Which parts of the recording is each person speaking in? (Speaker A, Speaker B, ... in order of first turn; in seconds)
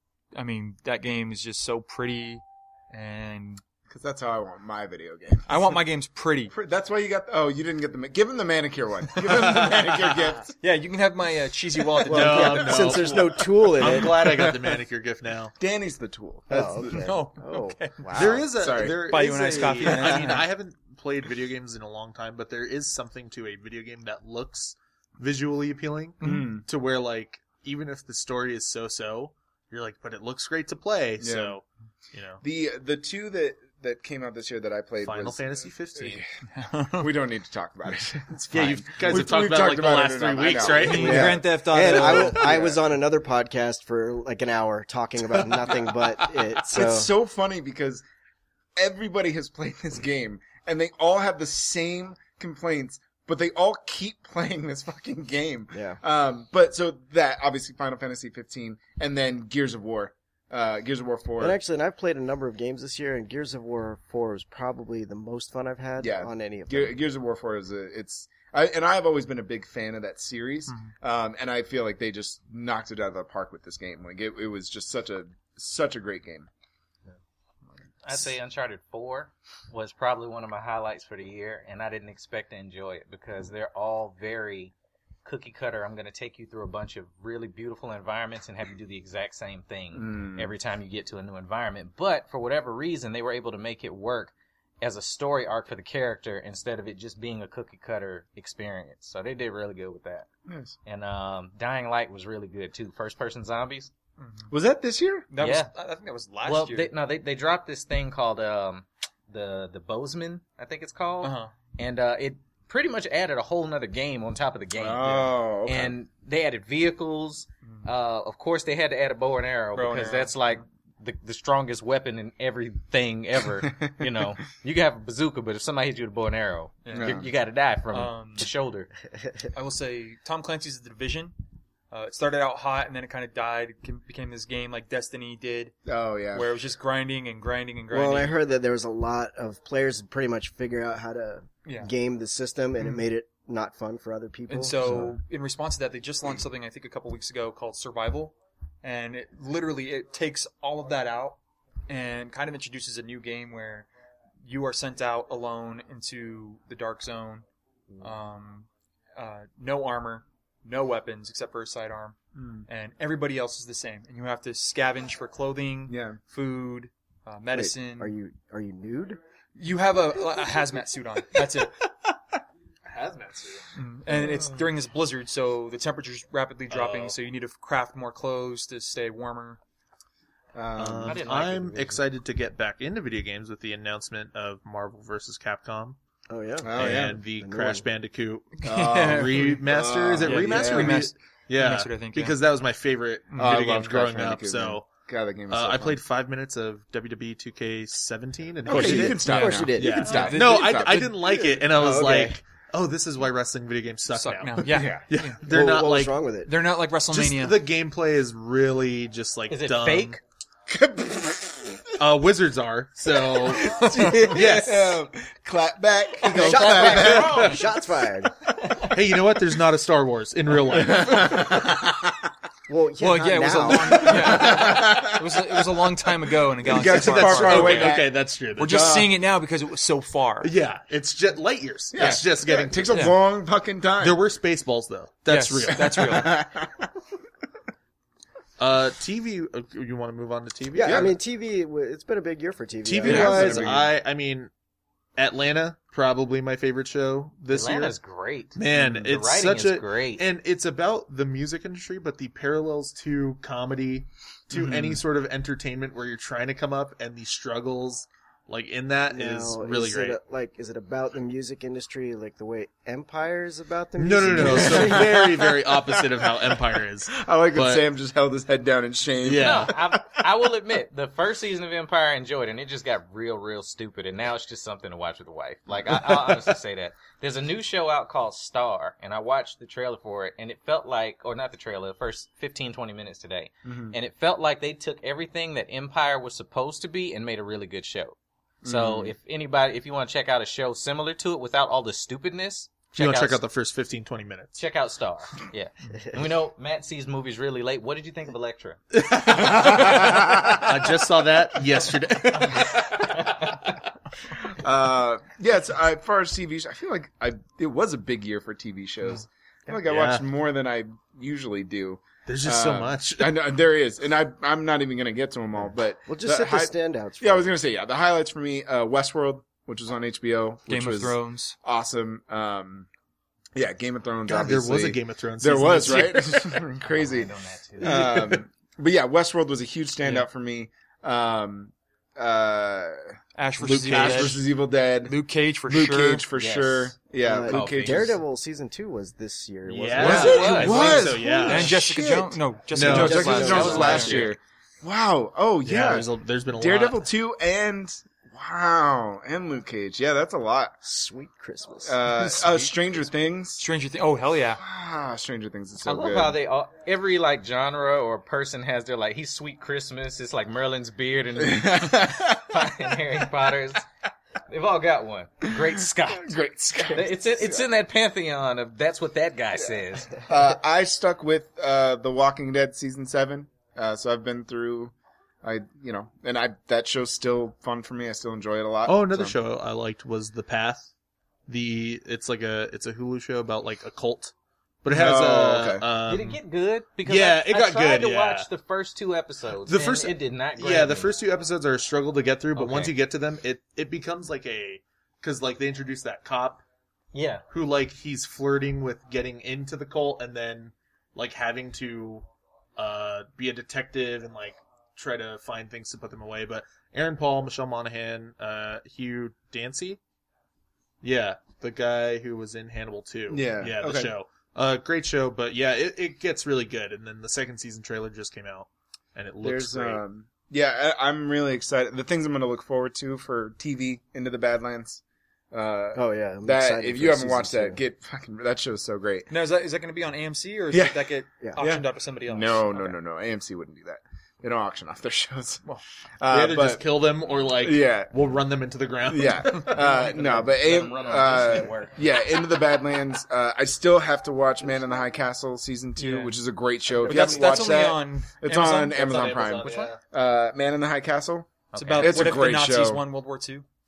Speaker A: 0.3-3.6, 5.5-6.5, 9.3-9.8, 10.6-13.0, 16.9-18.2, 19.0-20.5, 26.2-26.5, 36.5-37.1, 40.6-42.6, 104.2-104.5, 105.3-106.9, 111.2-111.5, 119.7-120.4, 126.8-127.2, 127.9-128.5, 129.5-131.3, 131.9-135.7, 136.3-138.3, 141.6-141.9, 144.5-153.9, 154.4-157.4, 158.0-168.1, 169.6-171.8, 173.8-179.6, 188.6-189.6, 190.2-192.3, 199.2-200.9, 204.1-205.4, 206.4-207.6, 213.6-214.3, 223.0-228.0, 228.6-230.5, 235.3-236.4, 320.7-321.6, 333.4-334.4, 335.0-336.2, 341.3-344.2, 352.1-352.7, 353.6-354.6, 429.3-432.9, 446.0-446.3, 447.0-449.3, 451.7-453.6
Speaker B: 3.9-5.8, 6.5-10.6, 13.9-14.5, 15.6-17.1, 18.5-20.3, 26.2-26.6, 31.2-31.6, 32.4-36.2, 37.0-42.8, 46.6-48.0, 48.8-61.6, 66.0-76.5, 89.9-90.5, 100.5-100.7, 104.5-105.3, 114.8-115.9, 123.7-124.0, 126.9-127.2, 135.8-136.5, 162.3-162.7, 165.9-166.2, 180.5-181.2, 186.6-187.2, 188.6-191.0, 193.4-196.0, 198.7-202.3, 204.7-205.1, 210.7-211.8, 213.2-217.6, 220.7-222.3, 223.9-225.9, 226.6-229.2, 231.9-234.2, 235.8-236.9, 240.8-241.1, 243.0-243.9, 248.7-249.1, 254.5-255.0, 264.4-266.5, 267.1-269.8, 283.6-283.9, 288.6-289.1, 299.1-300.9, 302.6-302.8, 304.3-322.9, 323.5-338.2, 340.0-350.8, 351.8-353.6, 354.6-356.4, 361.4-362.7, 365.7-367.7, 370.2-379.3, 384.9-385.8, 413.3-414.1, 419.4-425.0, 425.5-429.3, 430.7-435.6, 436.2-436.8, 437.6-438.1, 439.1-453.1
Speaker C: 9.3-9.8, 12.0-15.5, 18.1-32.4, 35.0-36.2, 38.5-41.4, 172.9-173.6, 176.7-177.2, 180.8-186.0, 186.7-194.9, 195.5-206.2, 207.1-210.2, 212.0-215.0, 218.8-221.4, 226.6-228.9, 230.4-233.2, 234.0-236.3, 238.6-241.1, 242.8-244.5, 245.2-247.9, 248.5-260.2, 264.0-267.9, 269.2-269.7, 292.9-294.6, 298.9-303.1, 309.9-310.2, 312.2-313.4, 324.2-326.4, 333.6-334.4, 339.6-341.9, 342.7-344.3, 345.6-347.0, 378.9-380.9, 381.5-386.4, 387.1-388.5, 389.7-396.6, 397.5-410.0, 411.0-420.0, 436.3-440.1, 447.1-447.3, 448.9-450.0
Speaker D: 12.1-14.3, 16.5-18.8, 40.9-47.1, 55.7-56.0, 61.4-67.0, 137.9-145.1, 167.5-169.2, 186.3-187.8, 198.7-200.3, 201.7-202.3, 205.5-206.5, 216.2-218.3, 222.7-224.6, 240.7-243.9, 259.1-265.2, 316.1-317.5, 337.2-340.9, 342.8-344.1, 350.8-352.0, 425.9-427.8
Speaker E: 78.0-84.7, 85.2-100.3, 100.8-103.9, 105.4-105.7, 106.4-128.9, 181.0-182.0, 209.5-210.2, 216.2-217.7, 247.5-250.2, 269.4-293.4, 294.5-298.8, 326.8-328.3, 336.4-336.9, 337.4-338.1, 340.0-341.2, 343.4-344.3, 355.8-363.8, 364.5-366.4, 366.9-370.2, 386.0-391.1, 392.5-392.9, 397.1-397.4, 439.8-442.0, 447.1-447.3, 449.6-449.9, 451.7-452.5